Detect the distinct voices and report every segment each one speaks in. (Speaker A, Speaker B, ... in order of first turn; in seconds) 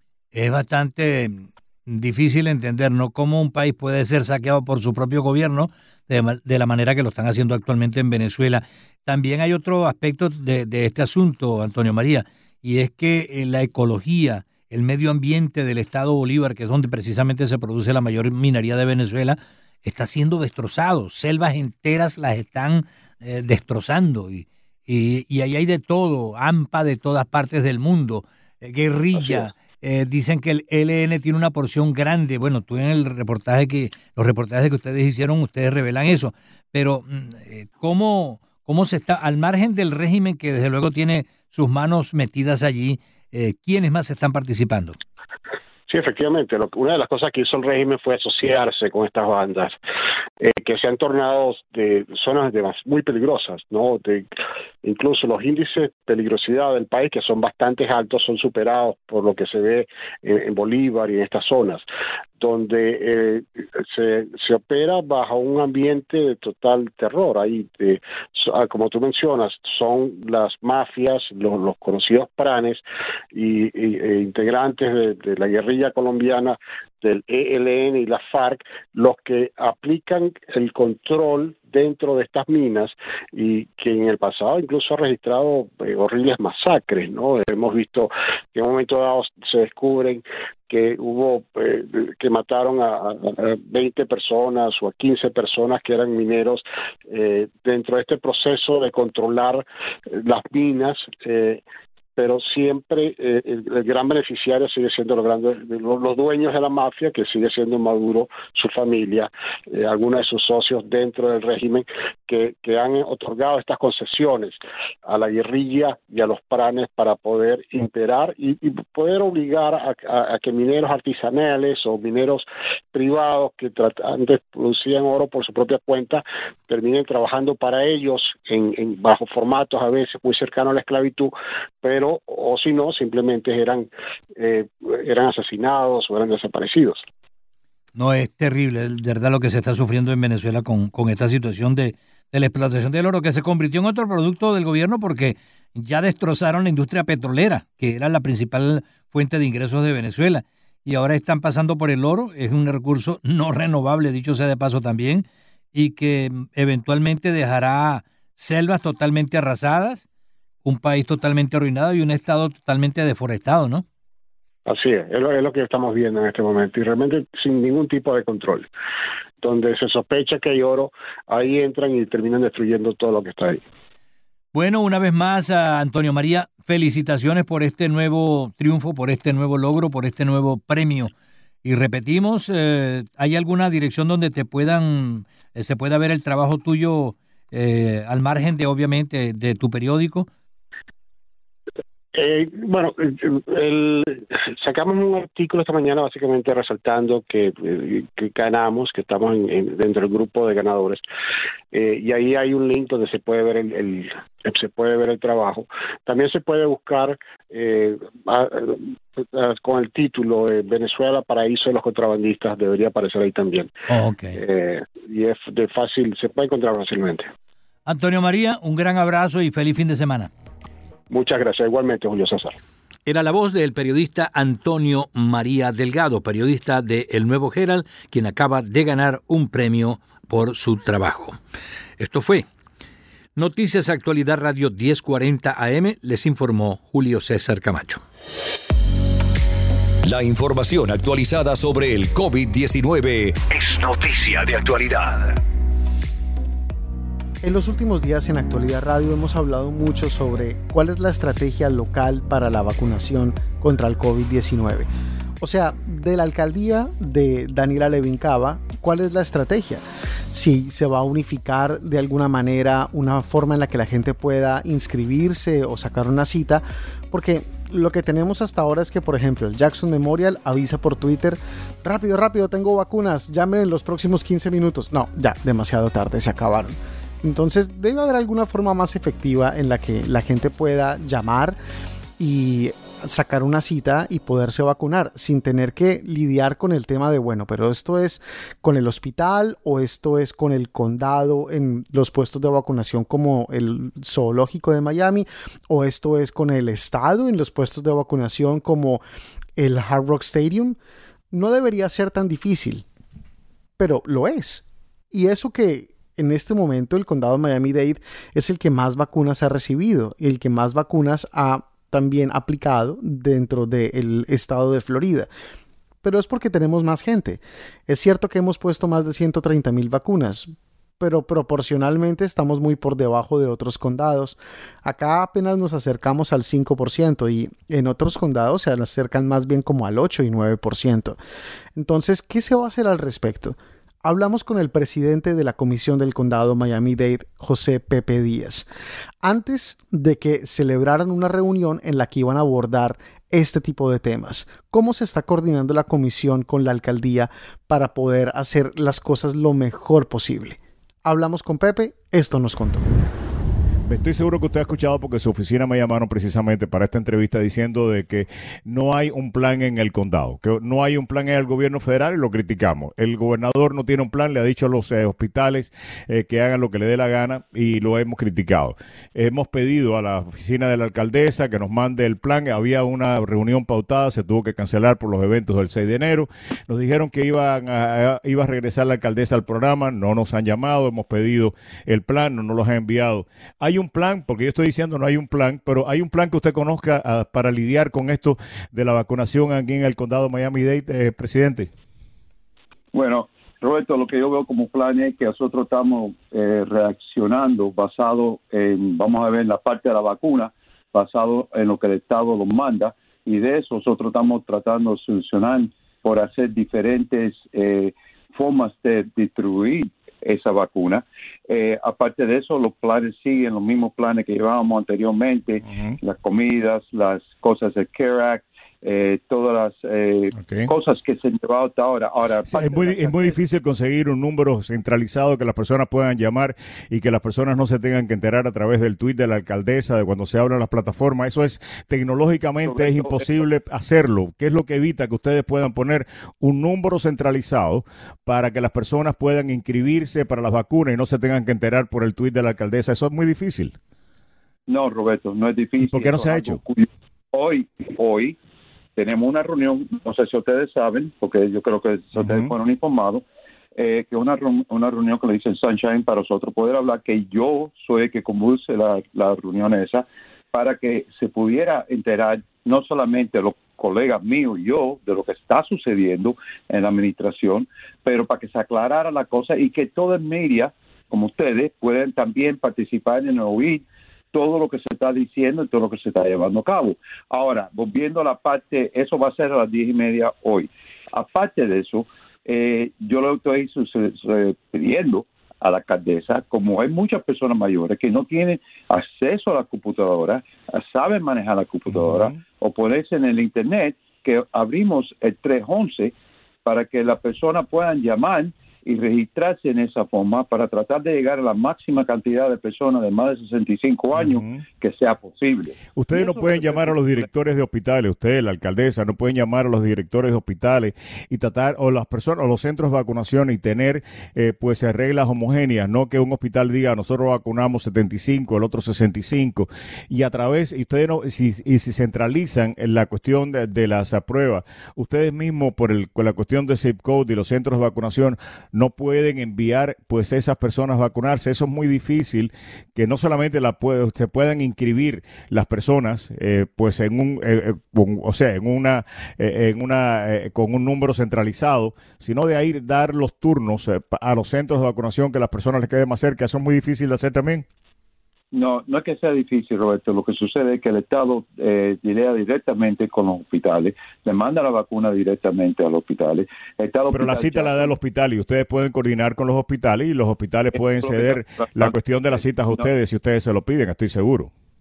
Speaker A: 0.3-45.0, 137.9-160.0, 160.6-163.8, 174.5-181.1, 181.6-190.3, 213.9-214.4, 217.8-220.3, 223.1-231.4, 232.0-232.4, 233.3-238.0
Speaker B: 45.9-49.8, 50.4-54.3, 54.8-61.8, 62.4-101.6, 102.2-137.0, 164.7-168.7, 169.4-173.6, 192.1-201.0, 201.7-213.7, 214.3-217.3, 221.1-222.5
Speaker C: 240.1-245.4
Speaker D: 247.4-254.9, 255.4-281.6, 282.2-299.0, 299.6-300.8, 301.3-302.8, 303.8-315.3, 316.0-331.2, 331.7-338.7, 339.2-352.8
Speaker E: 353.9-391.7, 415.7-416.0, 420.3-420.7, 422.5-443.7, 445.8-446.6, 452.2-452.5, 504.1-504.6, 505.9-547.6, 557.1-564.5
Speaker F: 392.9-423.4, 432.6-433.4, 444.7-448.4, 448.9-453.2, 453.7-496.1, 496.6-507.2, 548.5-557.9, 560.7-562.9